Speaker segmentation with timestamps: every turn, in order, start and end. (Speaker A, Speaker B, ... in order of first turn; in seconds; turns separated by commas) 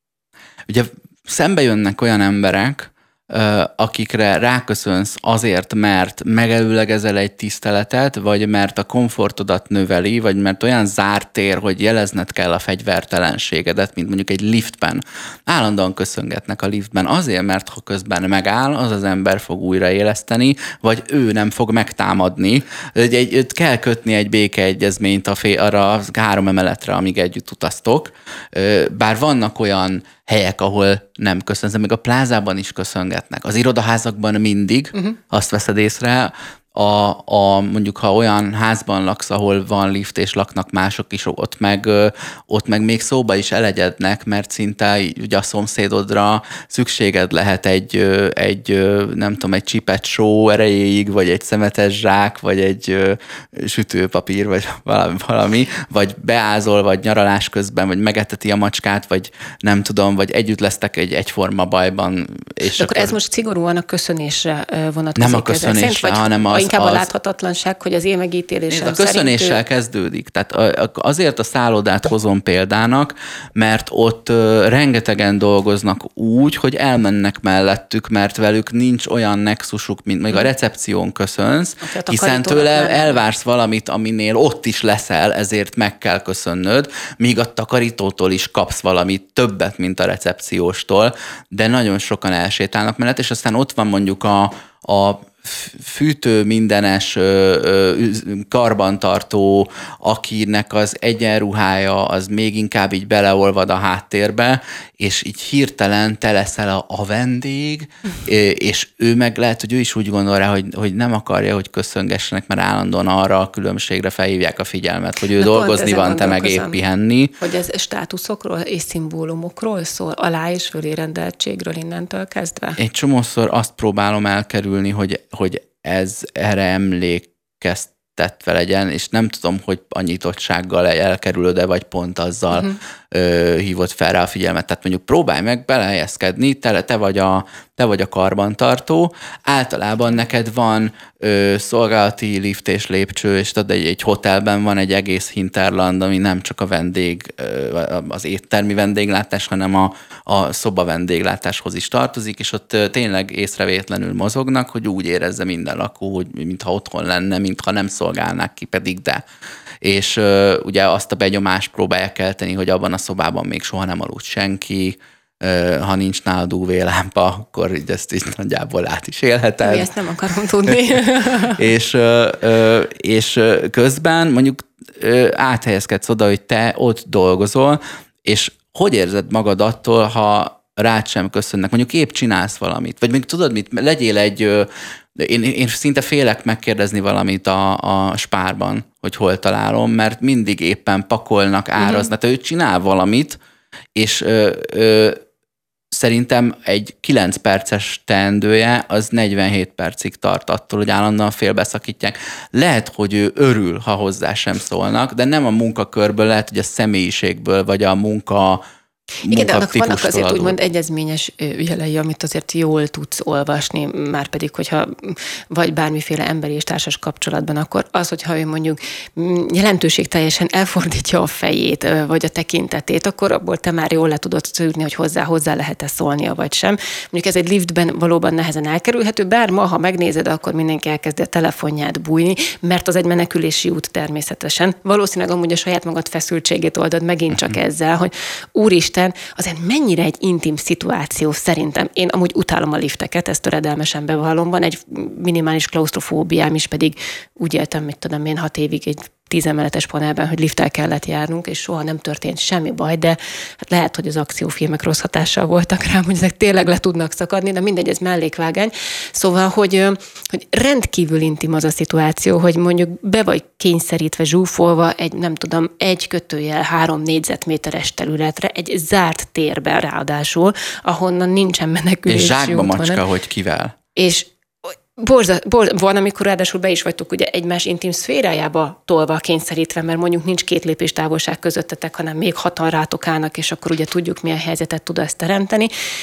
Speaker A: 0.7-63.1, Speaker B: 62.8-69.6, Speaker A: 65.2-67.1, Speaker A: 68.7-117.3, Speaker B: 81.8-83.2, Speaker B: 115.4-116.8, Speaker B: 117.4-122.8, Speaker A: 122.8-159.2, Speaker A: 159.8-169.9, Speaker B: 169.6-171.6, Speaker A: 171.5-193.4, Speaker B: 191.8-192.1, Speaker A: 193.9-195.2, Speaker A: 195.9-208.6, Speaker A: 209.2-210.6, Speaker B: 209.3-273.0, Speaker A: 237.3-237.6, Speaker A: 272.1-273.7, Speaker B: 273.9-274.3, Speaker B: 274.9-285.7